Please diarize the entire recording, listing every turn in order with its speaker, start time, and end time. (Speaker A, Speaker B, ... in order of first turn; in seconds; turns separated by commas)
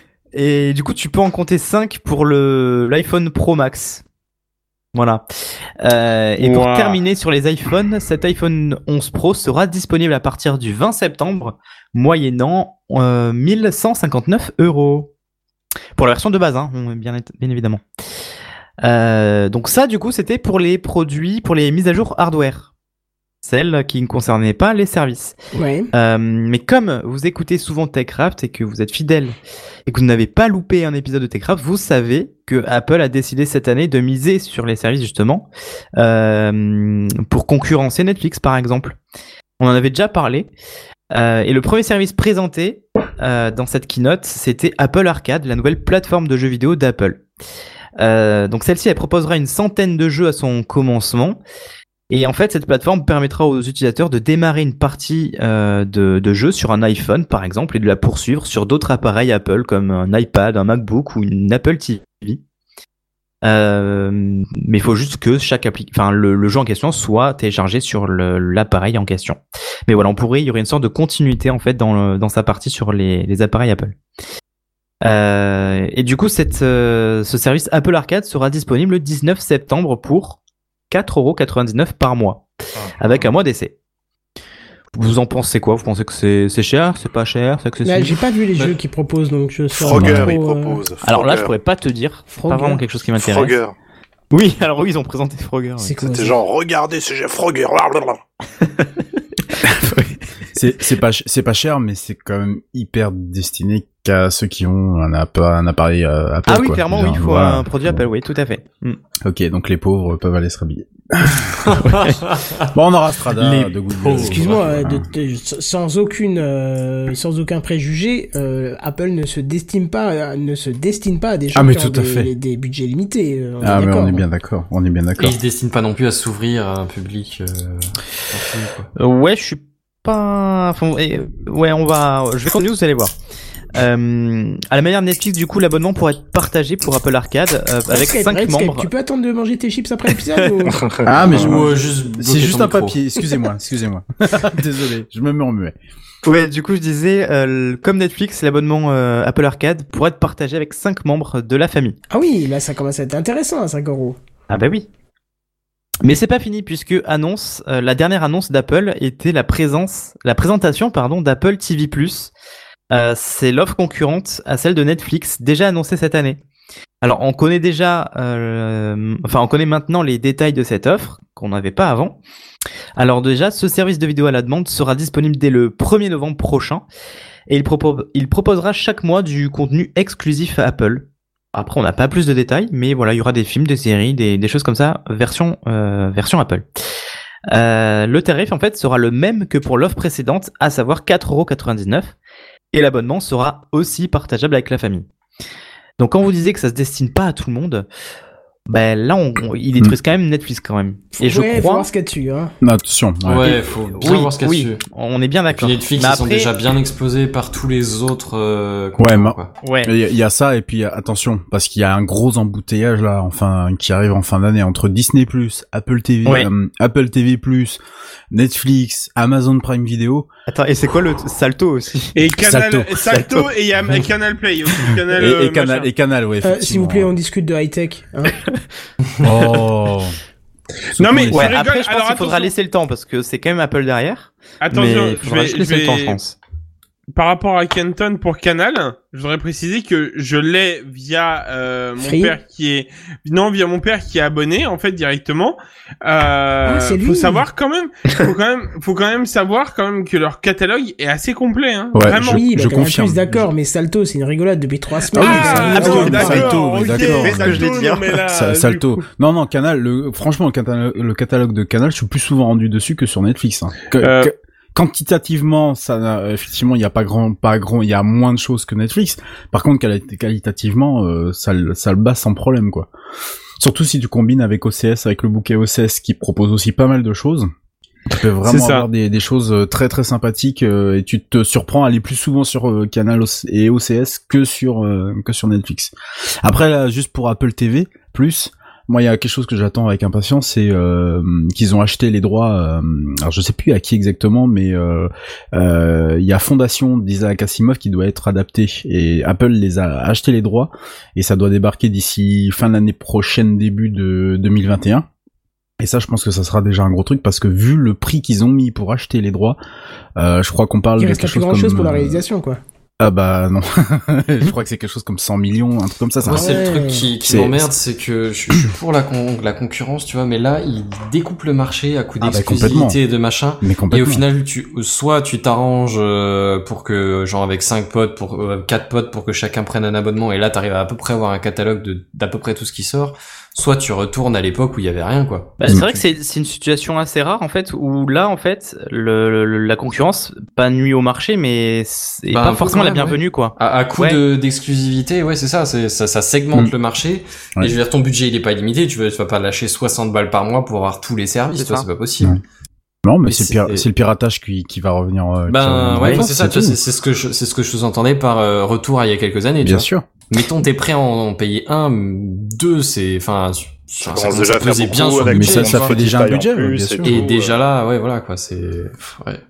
Speaker A: 0.3-4.0, Speaker A: 4.9-5.2, Speaker A: 5.8-15.1, Speaker B: 6.4-7.0, Speaker A: 16.0-17.8, Speaker A: 18.8-22.7, Speaker A: 23.4-25.4, Speaker C: 25.5-25.9, Speaker A: 25.9-39.0, Speaker A: 39.6-40.5, Speaker A: 41.1-47.2, Speaker A: 48.0-51.4, Speaker A: 52.1-62.4, Speaker A: 63.4-74.0, Speaker A: 75.0-80.4, Speaker A: 80.9-82.5, Speaker D: 82.7-83.3, Speaker A: 83.0-83.7, Speaker A: 84.9-88.2, Speaker C: 87.8-90.8, Speaker D: 89.7-91.5, Speaker E: 89.9-90.4, Speaker A: 91.0-93.6, Speaker C: 92.3-92.8, Speaker D: 93.2-93.7, Speaker A: 94.3-96.0, Speaker C: 95.8-96.4, Speaker D: 96.0-98.2, Speaker A: 99.5-100.2, Speaker E: 100.5-108.0, Speaker A: 106.5-109.0, Speaker E: 109.2-111.7, Speaker F: 111.7-112.5, Speaker A: 111.9-112.2, Speaker E: 112.7-115.0, Speaker F: 113.6-114.6, Speaker C: 114.2-124.2, Speaker E: 121.5-122.3, Speaker E: 123.6-125.4, Speaker F: 125.2-128.9, Speaker A: 128.9-133.1, Speaker A: 133.7-138.9, Speaker C: 137.9-140.8, Speaker D: 140.7-141.5, Speaker E: 141.0-145.8, Speaker F: 141.2-143.0, Speaker A: 146.2-152.0, Speaker C: 152.1-154.2, Speaker A: 154.5-154.9, Speaker A: 156.0-162.3, Speaker A: 162.9-166.4, Speaker A: 167.0-172.2, Speaker A: 173.0-176.8, Speaker A: 177.5-186.7, Speaker A: 187.5-192.1, Speaker A: 192.7-195.1, Speaker A: 196.0-197.9, Speaker A: 198.7-201.9, Speaker C: 201.1-202.5, Speaker E: 202.6-203.7, Speaker F: 203.2-204.8, Speaker A: 204.0-206.5, Speaker F: 205.6-209.5, Speaker E: 209.0-217.8, Speaker A: 209.6-209.9, Speaker E: 218.3-220.3, Speaker A: 220.5-222.2, Speaker B: 222.2-225.9, Speaker E: 222.4-223.1, Speaker A: 223.0-223.5, Speaker E: 225.1-227.1, Speaker C: 226.4-228.4, Speaker E: 229.2-230.2, Speaker B: 230.9-232.5, Speaker E: 230.9-231.6, Speaker A: 231.3-236.3, Speaker B: 234.6-236.2, Speaker B: 237.1-252.4, Speaker C: 242.0-242.3, Speaker C: 246.6-247.4, Speaker E: 251.9-253.5, Speaker C: 252.3-256.5, Speaker E: 255.1-272.9, Speaker B: 255.2-259.0, Speaker A: 255.8-258.2, Speaker B: 264.0-264.3, Speaker E: 273.6-277.5, Speaker E: 278.1-305.1, Speaker B: 278.4-278.9, Speaker E: 305.8-309.6, Speaker E: 310.1-312.2, Speaker C: 311.0-312.6, Speaker E: 313.0-316.7, Speaker F: 316.2-335.6, Speaker C: 316.3-317.0, Speaker E: 317.2-317.7, Speaker E: 322.2-323.0, Speaker E: 323.6-324.2, Speaker A: 335.6-344.2, Speaker E: 335.7-336.0, Speaker F: 342.3-352.4, Speaker A: 351.5-351.9, Speaker E: 353.0-356.8, Speaker F: 353.2-353.9, Speaker F: 355.5-366.1, Speaker E: 359.6-360.1, Speaker D: 364.0-367.5, Speaker E: 365.2-367.1, Speaker F: 367.0-369.4